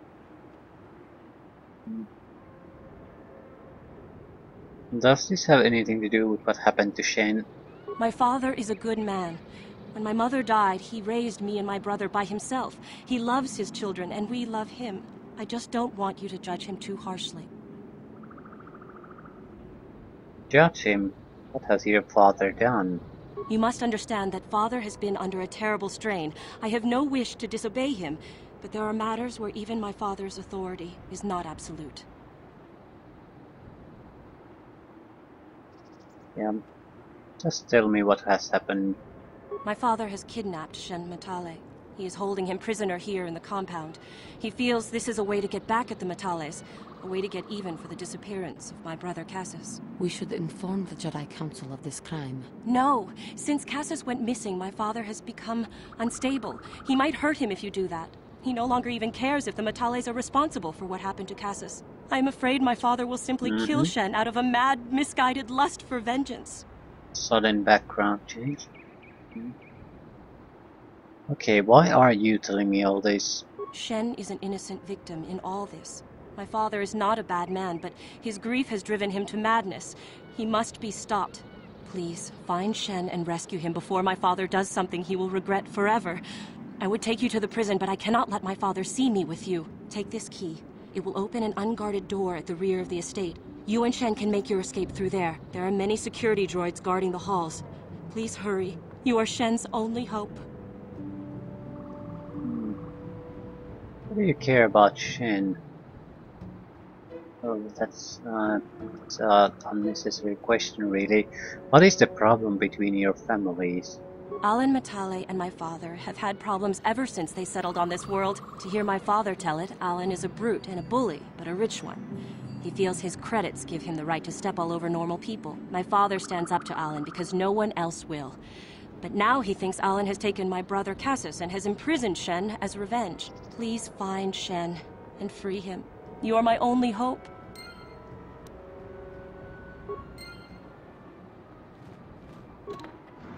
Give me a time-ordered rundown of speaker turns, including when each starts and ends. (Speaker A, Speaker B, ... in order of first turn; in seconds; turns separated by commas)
Speaker A: 4.9-7.5, Speaker B: 8.0-9.4, Speaker B: 9.9-17.5, Speaker A: 20.5-23.0, Speaker B: 23.5-32.1, Speaker A: 37.4-39.0, Speaker B: 39.6-49.8, Speaker C: 50.0-52.5, Speaker B: 52.6-66.6, Speaker A: 63.4-63.9, Speaker A: 67.1-68.7, Speaker A: 71.3-73.4, Speaker B: 73.7-86.2, Speaker B: 86.8-100.4, Speaker A: 102.4-102.8, Speaker A: 104.1-105.6, Speaker A: 107.4-114.0, Speaker B: 114.4-122.0, Speaker B: 122.6-128.4, Speaker B: 129.0-137.3